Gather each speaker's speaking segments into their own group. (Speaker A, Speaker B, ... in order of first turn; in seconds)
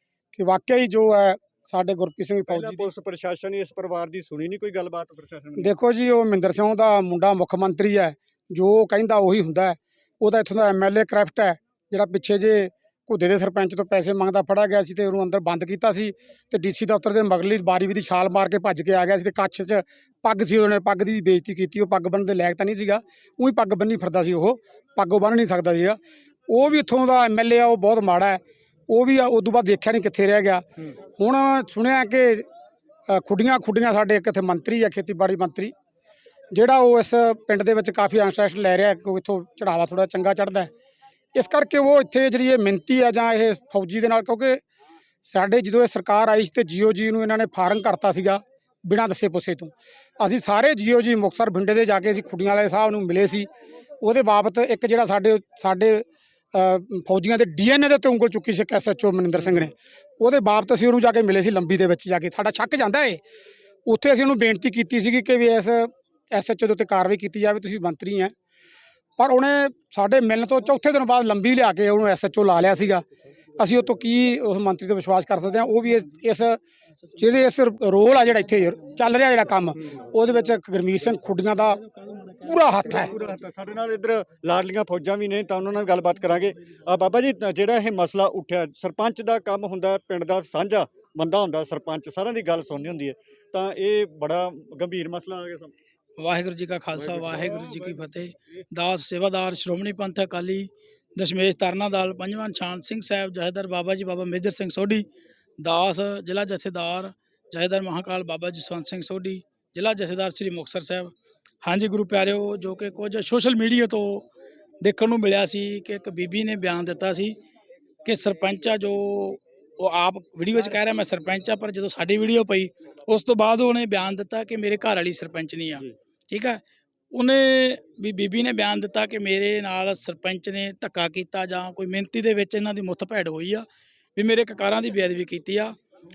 Speaker A: 0.3-2.9, 5.6-26.0, 26.5-32.5, 33.1-35.7, 36.5-40.7, 41.3-44.6, 45.2-53.5, 54.0-63.2, 63.9-68.3, 69.2-73.0, 73.6-76.6, 77.2-81.8, 82.4-83.1
Speaker B: 2.5-5.8, 59.4-59.7, 82.8-95.7
Speaker C: 96.2-105.0, 105.6-111.1, 111.6-114.2, 114.8-117.3, 118.0-126.6, 127.1-135.8